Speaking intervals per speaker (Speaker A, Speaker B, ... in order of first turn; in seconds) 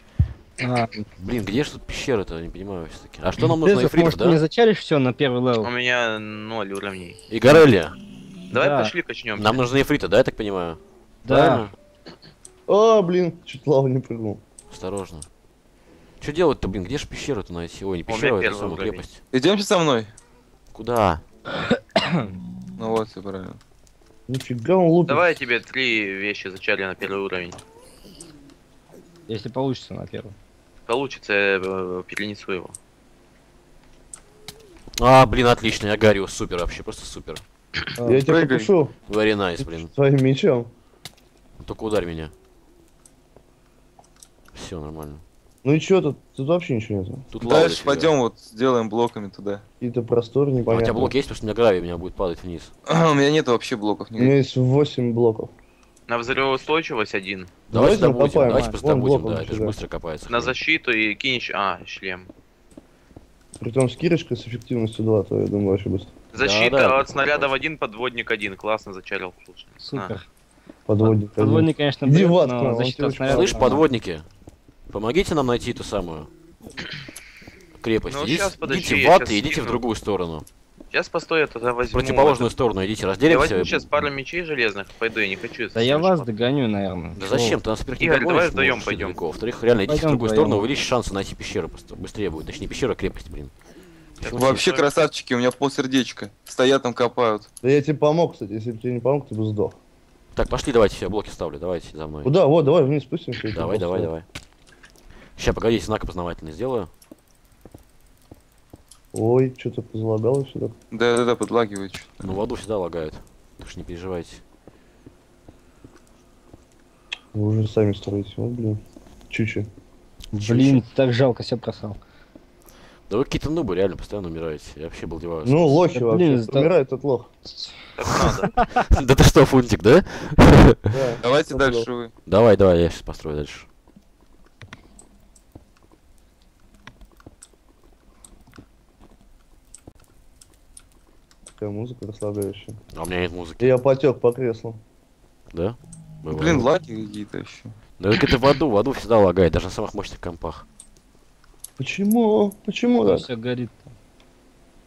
Speaker A: 0.6-1.1, 3.4-5.7, 8.5-8.9, 11.2-11.7, 21.7-22.3, 29.3-30.3, 38.0-38.2, 58.5-58.8, 69.8-70.2, 71.0-73.8, 85.7-87.6, 89.9-90.7, 120.3-122.0, 125.9-126.7, 127.5-128.8, 153.0-153.9
Speaker B: 1.2-4.4, 7.3-8.0, 9.3-11.7, 14.7-15.2, 16.2-19.2, 20.7-21.2, 35.0-37.4, 39.1-39.9, 41.6-42.3, 44.5-45.2, 47.3-48.1, 50.7-52.7, 57.7-60.5, 66.4-67.5, 73.3-74.2, 74.9-76.3, 77.8-80.4, 81.9-84.0, 87.2-93.5, 94.2-94.6, 100.3-102.3, 103.5-104.2, 105.4-106.9, 112.2-114.4, 120.4-120.8, 123.1-125.8, 128.8-130.9, 132.2-133.7, 142.9-143.7, 145.5-146.7, 148.0-150.6
Speaker C: 5.6-7.2, 8.5-9.6, 18.1-19.0, 25.1-27.6, 30.9-32.7, 56.1-57.5, 60.3-62.3, 66.3-70.1, 78.1-79.8, 80.9-82.5, 83.3-86.3, 88.0-89.2, 94.2-94.9, 128.0-128.6
Speaker D: 12.7-14.4, 24.3-25.3, 38.0-38.9, 39.6-40.7, 45.6-47.2, 49.8-51.1, 54.2-55.5, 57.7-59.8, 63.6-66.2, 70.9-73.7, 97.6-99.8, 102.2-104.1, 109.1-110.7, 117.3-119.7, 125.4-127.3, 130.9-131.9, 141.6-142.8, 143.6-144.8, 151.8-153.3
Speaker E: 19.3-20.1, 22.8-23.6, 38.3-38.7, 47.4-49.6, 52.9-54.3, 94.3-97.5, 110.9-112.4, 131.2-132.1, 146.3-147.7